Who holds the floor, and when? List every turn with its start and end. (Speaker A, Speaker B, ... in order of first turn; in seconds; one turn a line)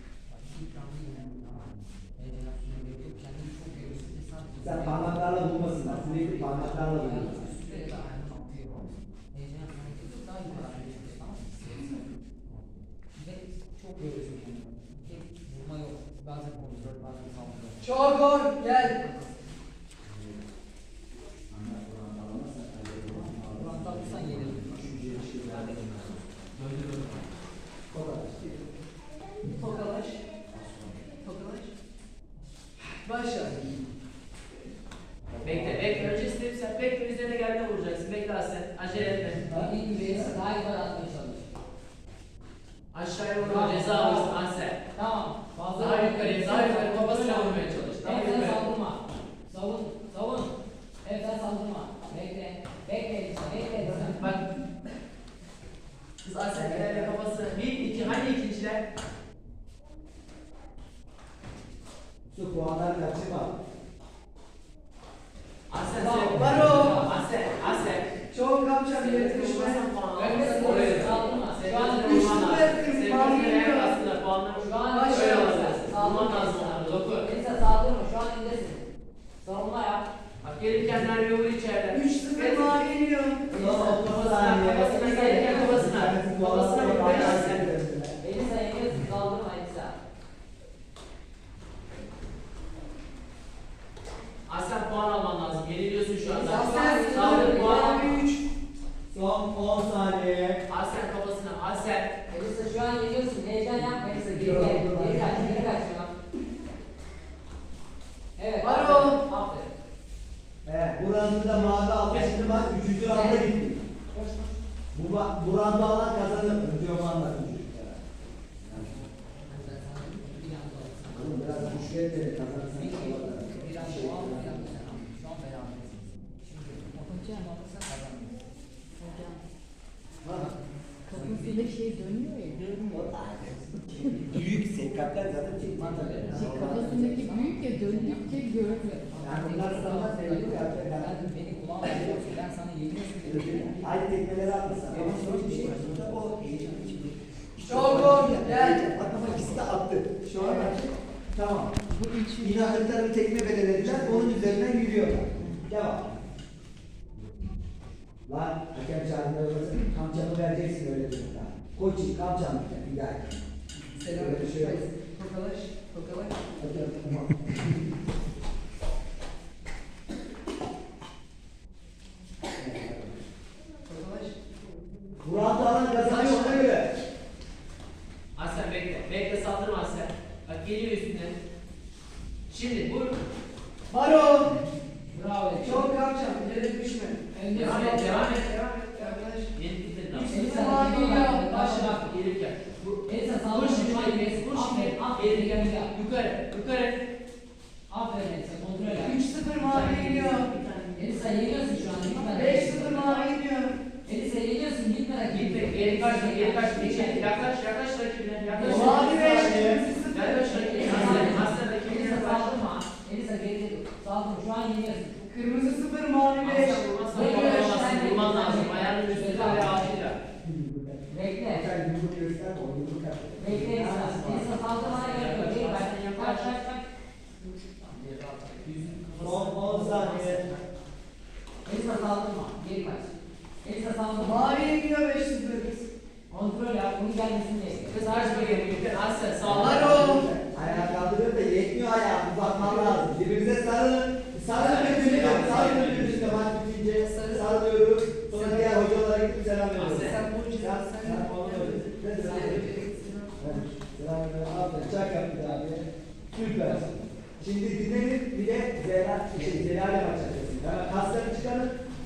Speaker A: 0.3-12.0
Speaker B: 4.6-7.5
Speaker A: 13.1-17.9
Speaker C: 17.8-19.0
Speaker A: 19.0-19.4
Speaker B: 20.1-20.4
Speaker B: 21.5-26.2
Speaker A: 23.1-25.1
Speaker D: 25.5-25.9
Speaker D: 26.5-27.2
Speaker B: 27.9-28.7
Speaker C: 29.5-30.2
Speaker B: 30.5-31.1
Speaker C: 31.2-31.7
Speaker C: 32.9-33.6
Speaker B: 35.3-36.2
Speaker D: 35.4-39.5
Speaker B: 39.1-40.4
Speaker A: 39.5-41.5
Speaker D: 42.9-44.8
Speaker A: 43.4-44.4
Speaker A: 44.9-54.3
Speaker D: 45.8-48.6
Speaker D: 54.1-54.4
Speaker D: 56.2-58.8
Speaker B: 56.5-57.2
Speaker B: 62.3-63.5
Speaker D: 65.7-68.1
Speaker A: 65.9-67.1
Speaker C: 66.3-67.0
Speaker C: 68.3-71.2
Speaker D: 68.9-77.3
Speaker A: 70.2-72.3
Speaker C: 71.9-74.0
Speaker A: 74.6-78.9
Speaker C: 74.9-75.9
Speaker A: 79.4-80.0
Speaker D: 80.4-82.8
Speaker C: 81.9-83.5
Speaker B: 83.5-88.2
Speaker A: 83.5-84.0
Speaker D: 83.9-87.7
Speaker A: 84.8-85.9
Speaker A: 88.2-90.0
Speaker D: 94.5-98.2
Speaker A: 96.2-98.1
Speaker C: 96.2-98.4
Speaker B: 99.1-100.6
Speaker D: 100.7-102.1
Speaker A: 102.3-106.1
Speaker B: 103.8-105.7
Speaker A: 108.3-109.7
Speaker C: 108.6-109.2
Speaker B: 110.6-113.8
Speaker D: 112.0-112.8
Speaker A: 113.0-113.4
Speaker B: 114.9-118.0
Speaker B: 118.6-118.9
Speaker A: 119.5-121.9
Speaker B: 121.1-124.8
Speaker A: 122.7-128.4
Speaker E: 127.1-127.4
Speaker E: 129.0-129.3
Speaker B: 130.2-130.5
Speaker A: 130.3-131.8
Speaker E: 131.1-132.8
Speaker B: 132.6-133.6
Speaker A: 134.0-134.4
Speaker B: 134.2-137.1
Speaker A: 135.7-143.9
Speaker E: 136.3-138.9
Speaker B: 139.2-141.2
Speaker B: 141.8-142.2
Speaker B: 143.2-151.7
Speaker A: 144.9-145.7
Speaker E: 145.1-147.0
Speaker C: 147.6-148.9
Speaker C: 150.3-150.7
Speaker E: 151.9-152.7
Speaker B: 152.4-156.1
Speaker B: 158.3-163.3
Speaker C: 164.0-166.4
Speaker B: 164.1-164.8
Speaker B: 166.6-167.7
Speaker B: 172.6-173.2
Speaker C: 173.8-174.4
Speaker B: 175.2-176.9
Speaker C: 176.0-176.7
Speaker D: 178.3-181.3
Speaker D: 182.5-183.2
Speaker C: 183.9-184.5
Speaker A: 185.1-185.9
Speaker C: 185.6-189.5
Speaker A: 187.3-188.0
Speaker D: 187.5-190.4
Speaker C: 190.1-191.9
Speaker A: 190.3-192.1
Speaker D: 191.8-192.9
Speaker A: 192.9-195.9
Speaker D: 193.5-197.0
Speaker A: 197.9-199.2
Speaker C: 198.9-200.5
Speaker D: 199.5-201.2
Speaker A: 200.9-203.1
Speaker C: 202.1-203.8
Speaker A: 204.0-207.4
Speaker D: 205.2-212.7
Speaker A: 208.5-209.1
Speaker C: 208.6-211.4
Speaker B: 209.0-209.8
Speaker A: 210.6-215.2
Speaker C: 215.2-217.9
Speaker D: 216.4-220.2
Speaker A: 217.1-219.9
Speaker B: 220.4-224.5
Speaker A: 221.1-221.7
Speaker A: 223.4-226.8
Speaker D: 224.8-226.6
Speaker D: 227.8-230.7
Speaker B: 229.2-230.4
Speaker A: 231.6-234.6
Speaker C: 234.2-235.9
Speaker A: 236.3-238.8
Speaker D: 237.9-240.1
Speaker B: 239.4-252.8
Speaker C: 239.4-241.0
Speaker C: 242.6-243.0
Speaker D: 244.5-246.4
Speaker C: 245.0-245.8
Speaker C: 246.9-247.6
Speaker C: 248.3-248.8
Speaker D: 249.7-250.2
Speaker C: 249.9-253.7
Speaker A: 252.2-253.0
Speaker B: 253.4-261.7
Speaker A: 256.6-257.3